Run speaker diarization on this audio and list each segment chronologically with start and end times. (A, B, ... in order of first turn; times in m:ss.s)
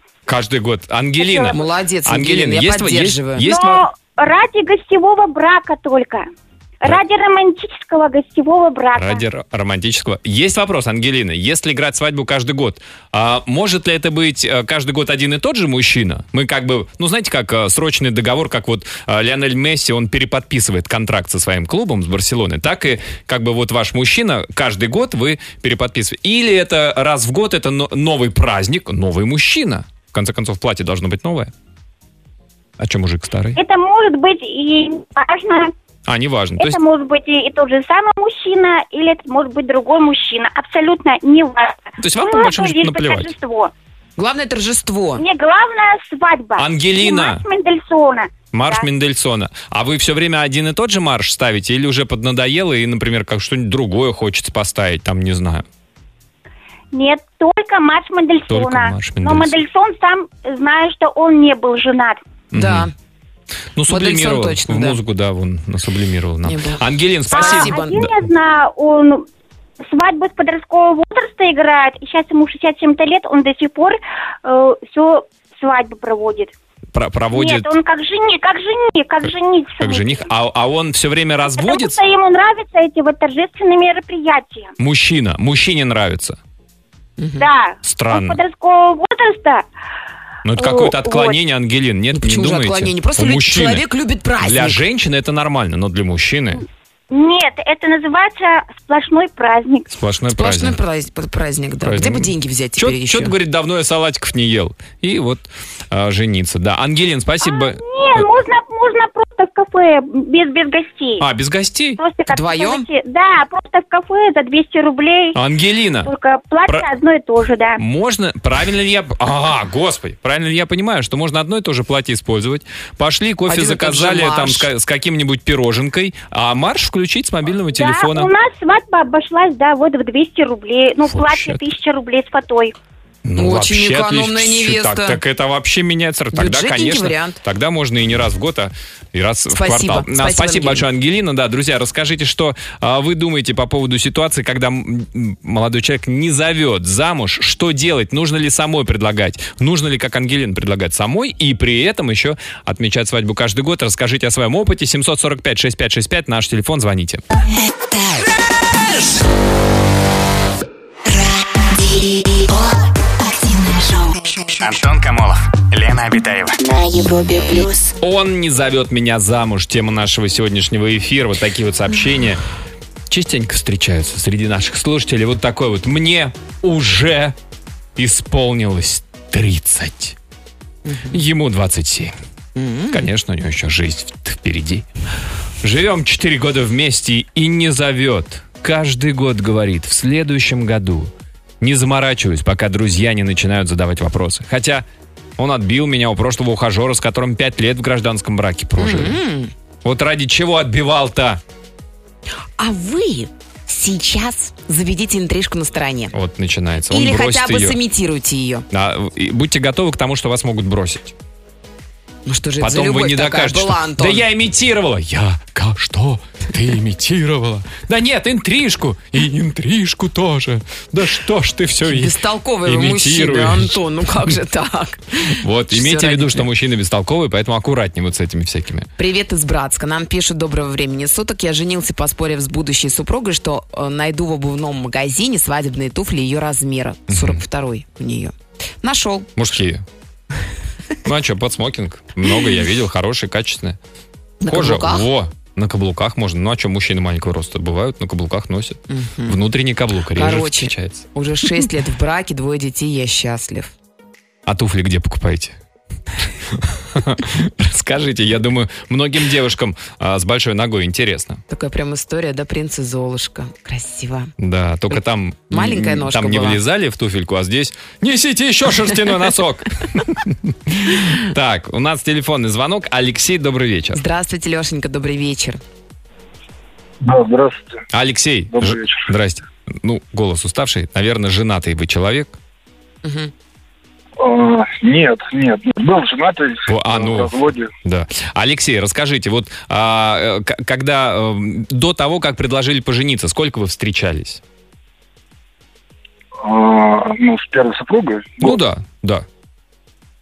0:00.3-0:03.9 A
0:01.2-0:01.6 B
0:01.5-0:03.5 C
0:03.4-0:06.3 B
0:06.8-0:09.2 B
0:09.0-0:31.5 A
0:32.8-0:33.6 A
0:33.6-0:35.7 B
0:36.1-0:36.8 A
0:36.6-0:43.7 B
0:42.0-0:43.3 A
0:44.2-0:45.2 C
0:45.2-0:48.8 B
0:46.6-0:47.4 A
0:48.5-0:55.7 A
0:56.9-1:02.2 B
0:58.5-0:59.5 A
1:02.5-1:02.9 A
1:02.5-1:02.9 C
1:03.8-1:08.1 A
1:03.9-1:05.0 C
1:06.4-1:08.0 C
1:07.3-1:09.3 B
1:09.8-1:16.5 B
1:16.9-1:17.7 A
1:17.3-1:20.3 B
1:19.8-1:22.0 A
1:21.5-1:24.7 B
1:24.8-1:26.4 A
1:27.2-1:27.5 C
1:27.4-1:29.7 B
1:27.8-1:28.4 A
1:30.4-1:33.9 A
1:30.6-1:31.4 B
1:32.1-1:34.8 C
1:34.4-1:36.6 A
1:37.1-1:39.9 B
1:39.9-1:40.8 A
1:40.3-1:43.3 C
1:41.8-1:48.2 A
1:47.4-1:51.2 B
1:51.2-1:52.0 A
1:52.0-1:55.4 B
1:52.3-1:52.9 C
1:55.4-1:56.1 A
1:56.0-1:57.8 B
1:57.8-2:08.3 A
2:03.5-2:04.7 C
2:07.7-2:12.8 B
2:11.1-2:11.6 A
2:13.2-2:37.2 A
2:13.4-2:15.2 C
2:16.3-2:17.4 C
2:19.5-2:20.8 C
2:37.7-2:38.3 D
2:38.9-2:39.1 D
2:41.1-2:44.6 D
2:44.6-2:46.6 E
2:46.6-2:47.9 D
2:48.0-2:52.4 A
2:53.1-2:57.4 A
2:58.0-3:00.2 A
3:00.8-3:01.2 C
3:01.1-3:02.1 A
3:02.6-3:03.1 C
3:02.9-3:04.9 A
3:05.6-3:14.8 A
3:15.4-3:19.2 A
3:18.8-3:19.5 C
3:19.8-3:21.4 A
3:22.6-3:26.1 C
3:26.1-3:27.8 A
3:26.9-3:28.6 C
3:28.7-3:31.2 A
3:32.3-3:34.2 C
3:32.6-3:43.8 A
3:41.9-3:46.5 C
3:45.4-3:48.9 A
3:49.0-3:59.3 C
3:57.1-3:57.4 A
3:59.4-3:59.8 A
4:01.0-4:03.8 A
4:04.4-4:05.1 C
4:04.5-4:11.0 A
4:08.9-4:09.4 C
4:10.2-4:13.7 C
4:14.5-4:15.6 A
4:16.5-4:21.4 A
4:21.5-4:24.3 C
4:24.4-4:34.0 A
4:25.5-4:26.6 C
4:33.9-4:35.6 C
4:37.0-4:37.8 F
4:37.9-4:42.4 A
4:38.5-4:39.1 F
4:43.0-4:43.3 C
4:44.2-4:47.7 F
4:46.7-4:54.4 A
4:56.4-4:58.6 F
4:58.4-4:59.3 A